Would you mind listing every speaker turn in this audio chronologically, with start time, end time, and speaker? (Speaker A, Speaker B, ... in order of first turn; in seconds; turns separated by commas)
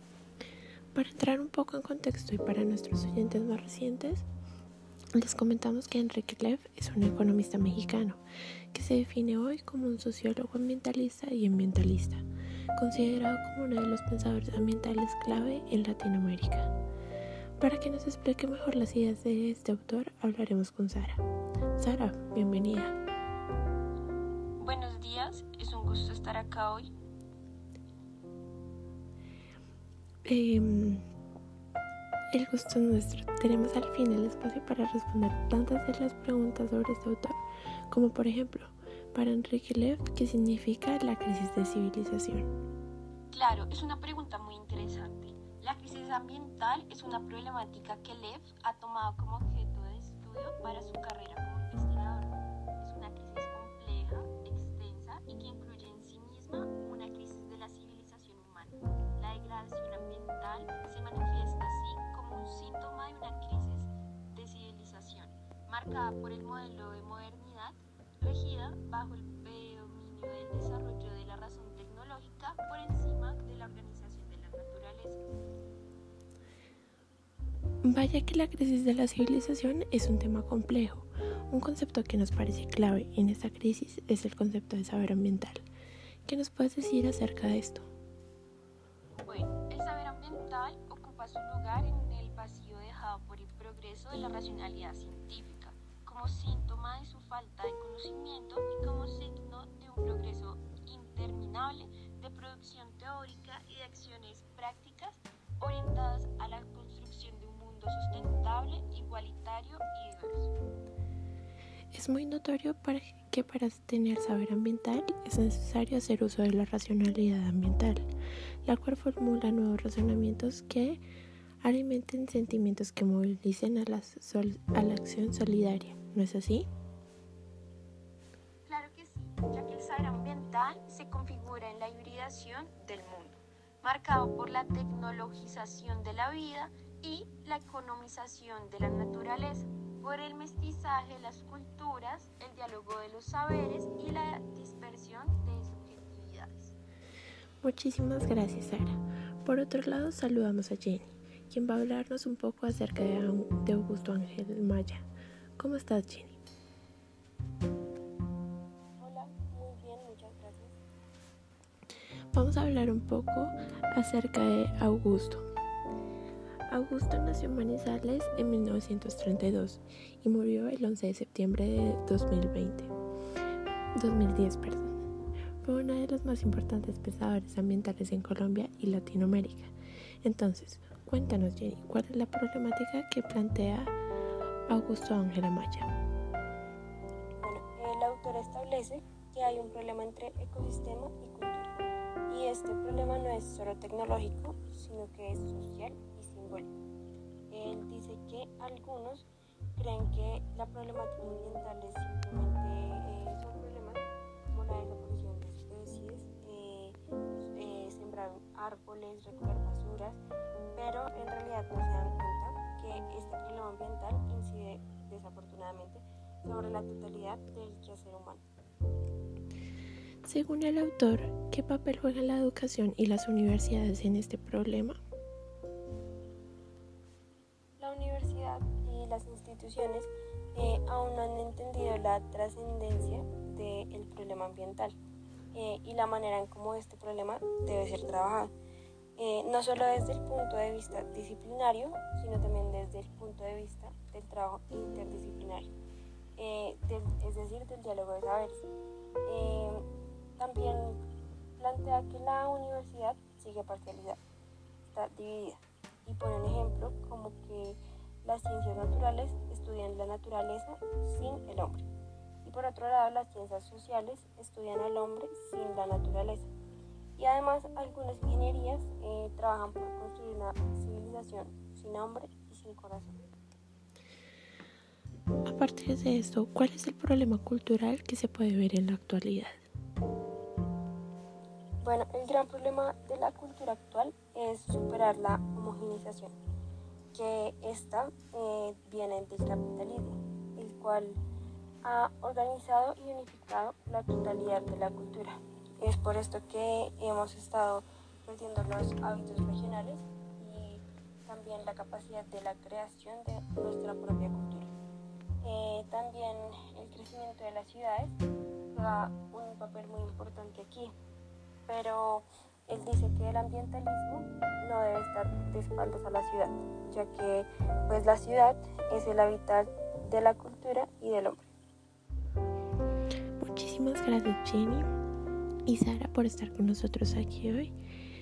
Speaker A: 0.9-4.2, Speaker A: 5.1-8.2, Speaker A: 8.7-12.2, Speaker A: 12.8-16.7, Speaker A: 17.6-21.2, Speaker A: 21.8-22.9, Speaker B: 24.6-26.9, Speaker A: 30.2-31.0, Speaker A: 32.3-37.4, Speaker A: 37.9-42.5, Speaker B: 43.3-75.2, Speaker A: 77.8-85.6, Speaker A: 86.2-87.9, Speaker B: 89.2-110.5, Speaker A: 111.9-118.0, Speaker A: 118.6-121.0, Speaker A: 121.6-126.7, Speaker B: 128.7-146.7, Speaker A: 147.6-155.1, Speaker A: 155.6-156.4, Speaker C: 159.0-160.8, Speaker A: 162.3-165.4, Speaker A: 166.7-172.9, Speaker A: 173.9-174.9, Speaker A: 175.6-183.9, Speaker A: 184.7-185.9, Speaker C: 187.4-191.8, Speaker C: 192.3-196.7, Speaker C: 197.5-199.2, Speaker C: 199.8-210.2, Speaker C: 210.8-218.4, Speaker A: 220.2-225.0, Speaker C: 227.8-234.9, Speaker C: 235.5-238.5, Speaker C: 239.2-245.7, Speaker C: 246.4-248.7, Speaker C: 249.2-249.8, Speaker C: 250.4-251.0, Speaker C: 251.6-254.2, Speaker C: 254.9-261.9, Speaker C: 262.4-266.5, Speaker C: 267.2-273.2, Speaker A: 275.4-279.6, Speaker C: 281.8-286.3, Speaker C: 287.1-291.2, Speaker C: 291.8-304.7, Speaker C: 305.4-308.1, Speaker C: 308.7-310.9, Speaker C: 311.7-321.5, Speaker A: 323.4-324.8, Speaker A: 325.6-327.7